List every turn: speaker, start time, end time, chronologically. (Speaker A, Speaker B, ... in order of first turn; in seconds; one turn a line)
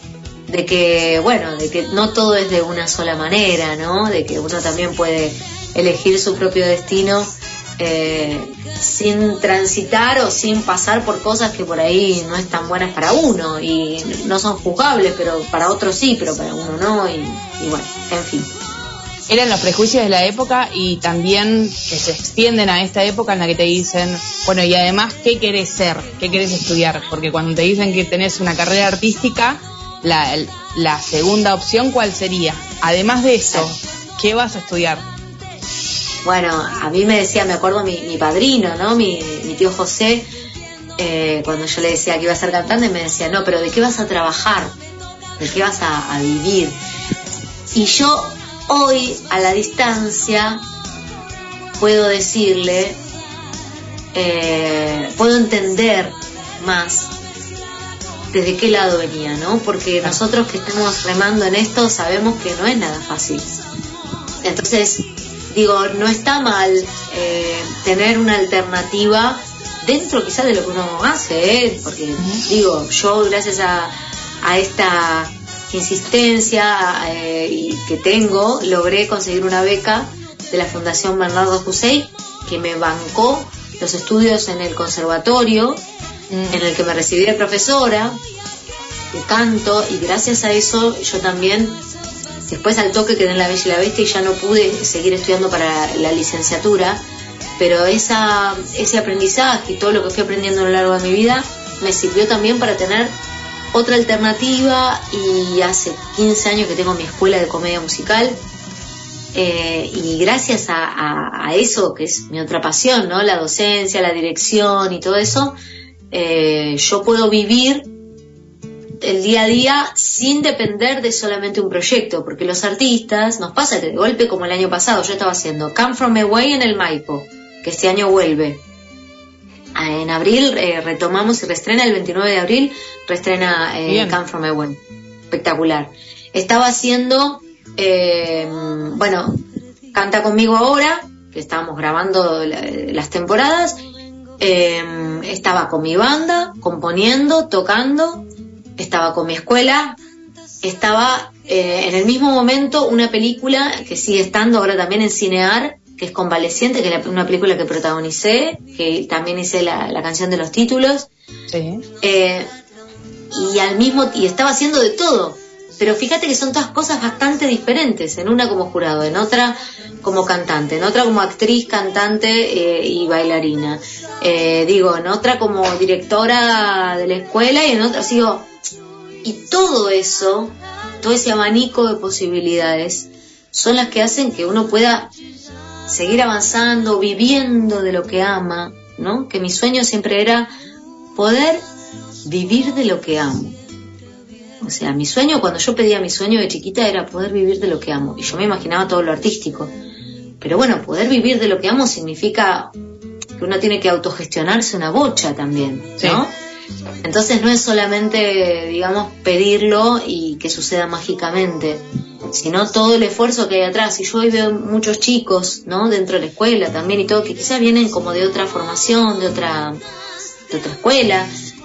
Speaker A: 0.5-18.5
Speaker B: 19.3-35.0
Speaker A: 36.2-40.3
Speaker A: 41.0-44.8
Speaker A: 45.4-46.8
Speaker A: 47.7-50.6
Speaker A: 51.8-53.0
Speaker A: 54.1-57.1
Speaker A: 58.3-63.5
Speaker A: 64.4-85.8
Speaker B: 72.2-72.5
Speaker B: 86.3-86.6
Speaker A: 86.5-88.2
Speaker A: 89.1-91.8
Speaker A: 92.5-97.0
Speaker A: 97.6-103.2
Speaker A: 103.7-108.4
Speaker A: 109.3-115.6
Speaker A: 116.1-117.9
Speaker A: 119.0-128.6
Speaker A: 129.8-134.8
Speaker B: 133.8-134.2
Speaker A: 135.3-139.4
Speaker A: 139.9-143.8
Speaker A: 144.4-148.2
Speaker A: 148.8-150.0
Speaker A: 150.6-161.1
Speaker B: 161.5-161.8
Speaker A: 162.0-162.5
Speaker A: 163.3-178.5
Speaker A: 179.2-185.1
Speaker A: 185.9-190.5
Speaker A: 191.1-191.7
Speaker A: 192.2-193.6
Speaker A: 194.6-199.7
Speaker A: 200.4-202.7
Speaker A: 203.4-206.3
Speaker B: 206.0-206.2
Speaker A: 207.0-219.8
Speaker A: 220.5-221.3